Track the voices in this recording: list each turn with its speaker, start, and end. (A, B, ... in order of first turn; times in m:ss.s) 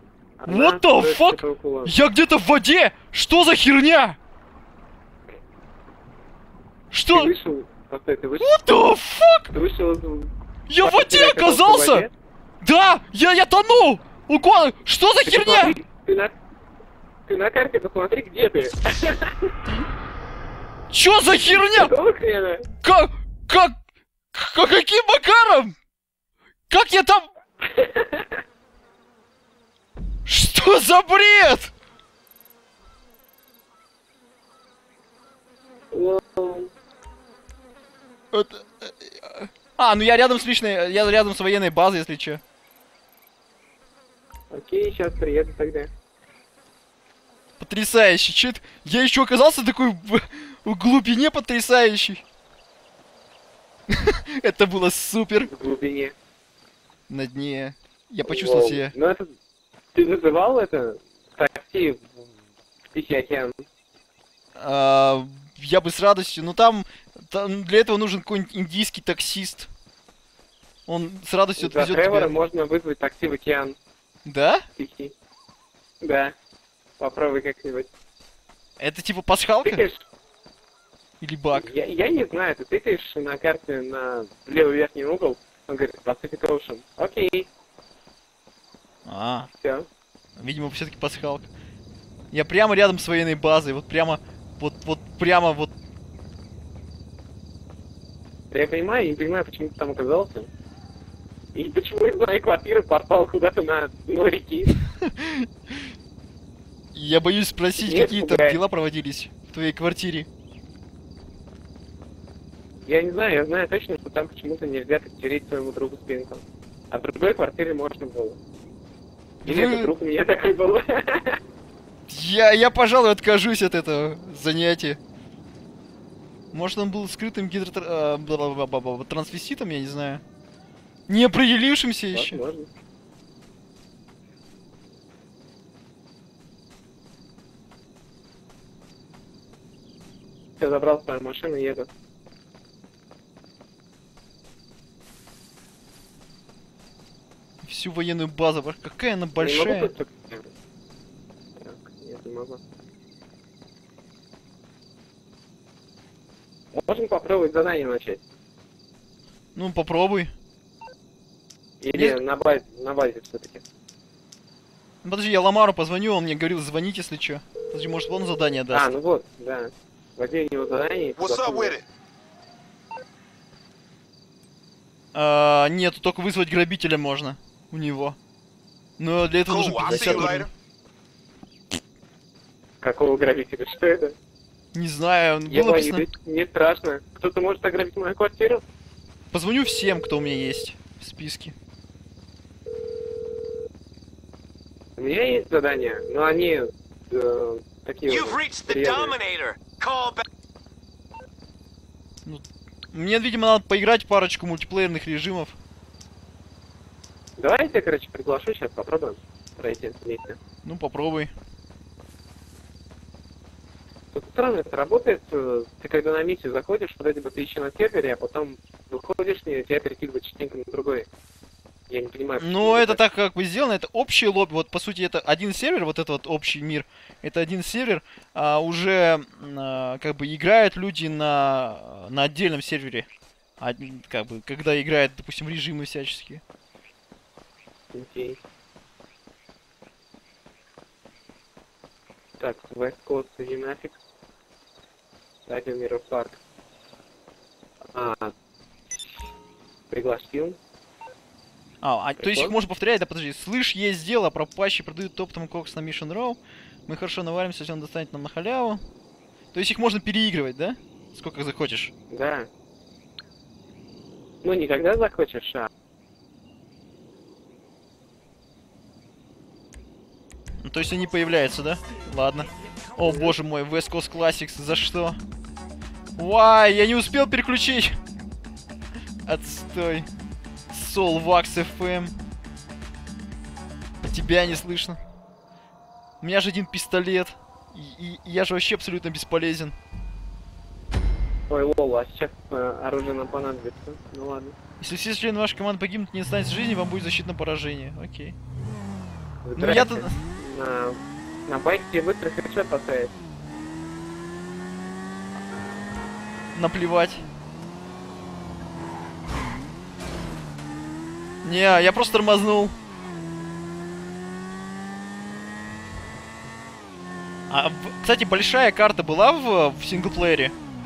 0:00.4-0:01.9 A
0:00.5-0:04.2 B
0:06.9-0:07.3 B
0:07.1-0:08.5 A
0:08.4-0:09.5 B
0:09.5-0:12.1 A
0:10.7-0:12.1 B
0:12.6-0:15.8 B
0:15.2-0:16.4 A
0:17.3-0:19.5 A
0:20.9-0:21.9 B
0:21.4-0:22.7 A
0:22.8-0:23.8 B
0:24.3-0:25.7 B
0:26.7-0:27.3 B
0:27.6-0:28.4 A
0:30.2-0:31.7 B
0:35.9-0:36.7 A
0:38.3-0:42.4 B
0:44.5-0:45.9 A
0:47.6-0:52.2 B
0:53.9-0:55.5 B
0:55.4-0:56.1 A
0:57.1-0:58.9 B
0:58.2-0:59.3 A
0:59.9-1:02.1 A
1:02.9-1:03.6 A
1:04.6-1:09.7 B
1:10.9-1:12.3 B
1:11.6-1:13.8 A
1:14.2-1:14.6 B
1:14.8-1:15.1 A
1:16.0-1:16.3 A
1:17.0-1:17.9 A
1:18.8-1:19.8 B
1:19.6-1:20.0 A
1:21.2-1:21.7 B
1:21.5-1:27.5 A
1:29.0-1:29.5 B
1:29.5-1:29.9 A
1:30.4-1:31.5 B
1:32.3-1:35.7 B
1:38.5-1:40.5 A
1:41.5-1:44.7 A
1:44.9-1:45.9 B
1:46.9-1:50.3 B
1:47.8-1:48.6 A
1:52.9-1:58.4 A
1:59.4-1:59.9 B
1:59.4-2:01.4 A
2:02.1-2:05.0 B
2:06.5-2:10.2 B
2:11.1-2:12.4 B
2:12.1-2:12.7 A
2:20.6-2:21.9 A
2:27.6-2:29.9 B
2:29.4-2:30.5 A
2:31.6-2:32.6 A
2:36.7-2:38.2 A
2:39.5-2:40.3 B
2:41.8-2:43.6 A
2:45.0-2:48.9 B
2:48.7-2:51.8 A
2:51.2-2:51.8 C
2:55.1-2:58.2 B
2:59.0-3:00.5 B
2:59.4-3:00.5 C
2:59.8-3:00.4 A
3:02.8-3:04.2 A
3:04.7-3:06.0 B
3:05.5-3:08.6 A
3:09.3-3:11.5 B
3:15.0-3:19.2 A
3:18.1-3:20.2 C
3:22.2-3:25.5 B
3:27.4-3:30.4 A
3:30.6-3:31.3 B
3:34.1-3:41.1 A
3:41.9-3:43.0 A
3:42.4-3:53.0 B
3:53.6-3:56.4 B
3:57.9-3:58.4 A
4:02.4-4:04.0 A
4:05.5-4:06.4 A
4:07.9-4:08.3 A
4:09.9-4:10.6 A
4:11.8-4:18.8 B
4:12.2-4:12.5 A
4:19.5-4:21.9 B
4:22.1-4:22.5 A
4:24.4-4:25.7 A
4:30.6-4:35.2 B
4:33.0-4:33.3 A
4:36.2-4:38.0 B
4:39.2-4:40.1 B
4:40.7-4:42.1 B
4:44.0-4:45.0 B
4:46.2-4:49.8 B
4:51.5-4:54.6 A
4:54.8-4:58.4 B
4:59.4-5:03.1 A
4:59.6-5:00.2 B
5:06.5-5:07.2 B
5:11.4-5:12.7 B
5:17.5-5:20.5 B